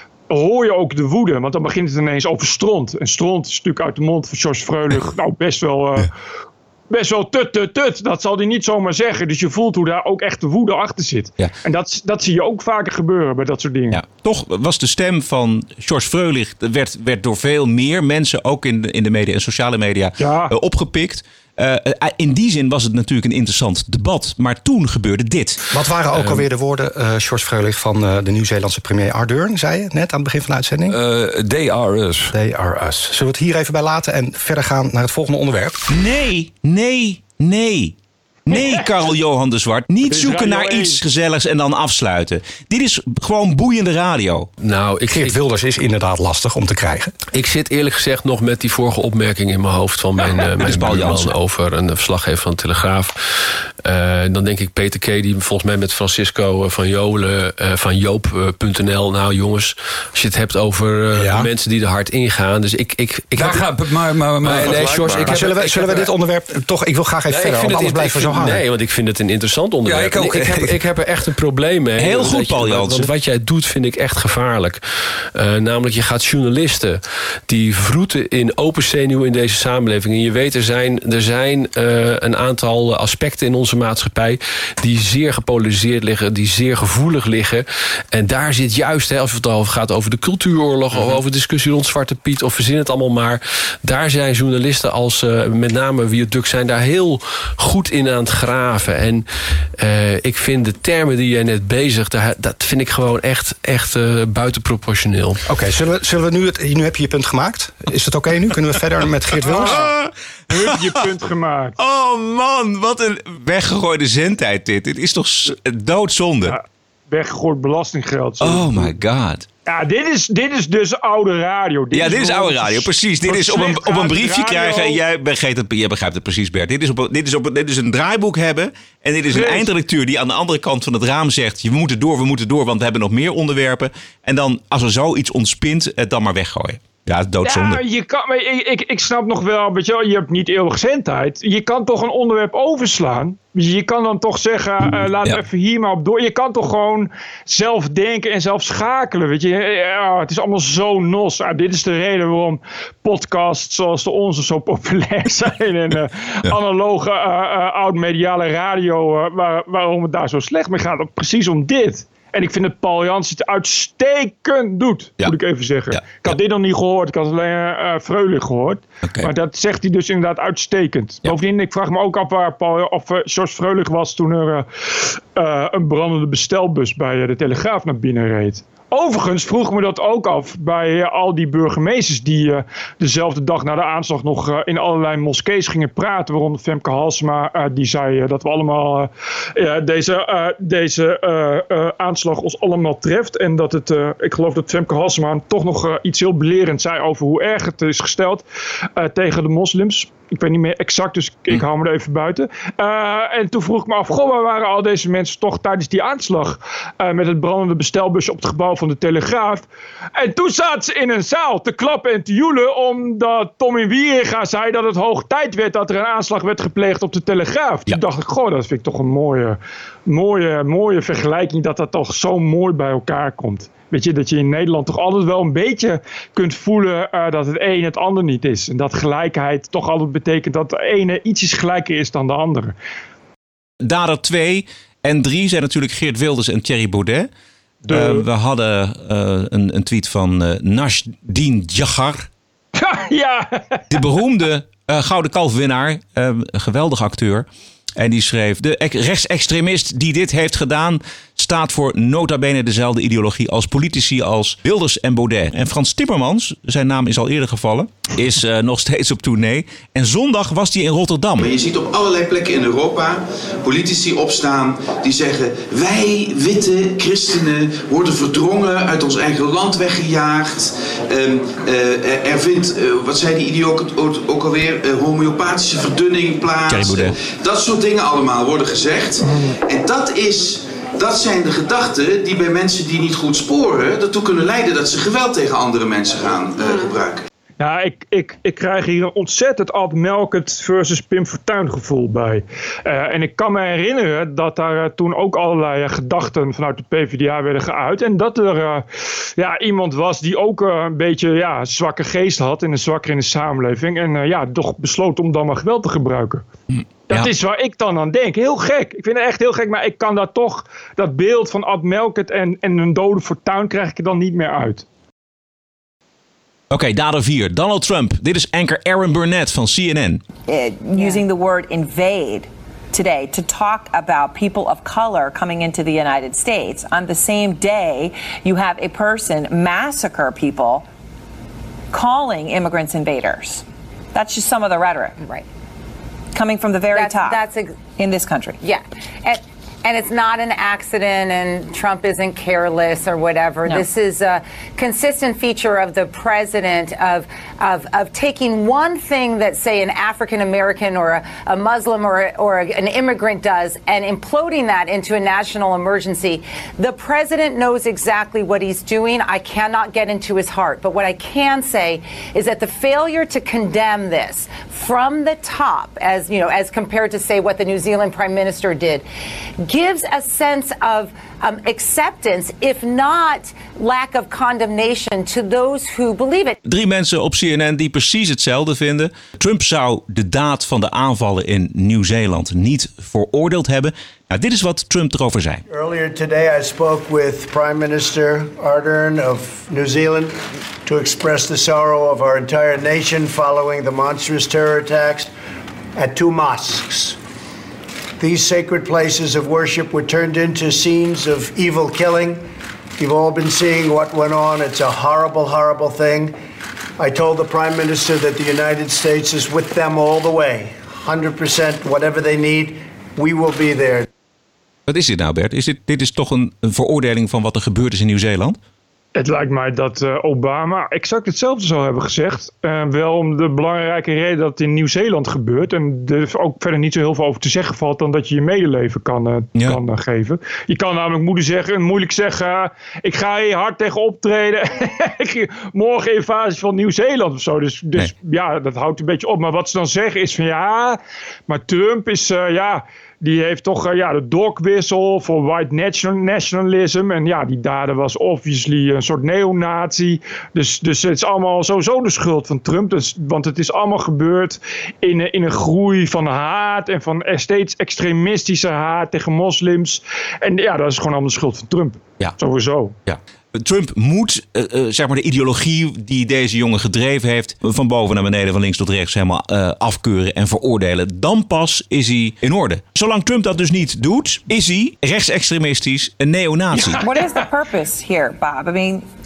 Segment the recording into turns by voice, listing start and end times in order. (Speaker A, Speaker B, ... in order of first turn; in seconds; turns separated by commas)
Speaker A: 0.3-6.1, Speaker A: 6.9-14.0, Speaker B: 13.9-25.6, Speaker A: 20.2-20.5, Speaker C: 25.7-30.9, Speaker D: 26.1-26.4, Speaker E: 30.9-32.3, Speaker C: 32.3-35.8, Speaker B: 35.9-37.9, Speaker B: 38.5-44.5, Speaker A: 38.5-38.8, Speaker A: 40.0-41.0, Speaker D: 44.6-45.4, Speaker C: 45.1-47.1, Speaker D: 47.3-66.1, Speaker B: 50.6-51.4, Speaker C: 61.1-61.5, Speaker E: 63.4-65.5, Speaker C: 64.4-68.6, Speaker D: 67.3-99.2, Speaker E: 69.8-70.8, Speaker B: 72.0-73.1, Speaker D: 99.8-105.4, Speaker C: 105.5-109.8, Speaker A: 109.4-109.9, Speaker B: 109.4-110.7, Speaker A: 110.5-111.8, Speaker B: 111.8-116.5, Speaker A: 116.4-119.0, Speaker B: 118.4-119.5, Speaker A: 119.7-125.0, Speaker B: 121.9-137.8, Speaker A: 129.3-129.7, Speaker A: 137.4-198.4, Speaker B: 165.9-166.4, Speaker B: 169.0-169.3, Speaker A: 198.9-209.7, Speaker A: 210.2-232.7, Speaker B: 233.8-237.3, Speaker A: 237.8-238.2, Speaker B: 237.9-242.3, Speaker A: 242.8-243.8, Speaker B: 243.9-261.5, Speaker F: 261.4-287.2, Speaker B: 276.7-277.2, Speaker A: 287.6-298.8, Speaker A: 299.4-306.4, Speaker B: 306.7-307.3, Speaker A: 307.1-314.9, Speaker B: 316.7-320.2, Speaker G: 320.5-330.9, Speaker G: 331.9-333.6, Speaker G: 334.1-335.2, Speaker H: 335.2-335.4, Speaker G: 336.3-338.6, Speaker H: 336.9-337.8, Speaker H: 338.6-369.0, Speaker H: 369.6-376.6, Speaker B: 376.6-385.6, Speaker I: 385.7-395.3, Speaker I: 395.9-397.2, Speaker I: 398.2-406.3, Speaker I: 407.0-414.1, Speaker B: 414.9-418.6, Speaker A: 419.1-462.9, Speaker B: 463.1-477.0, Speaker A: 476.7-477.4, Speaker G: 477.0-479.1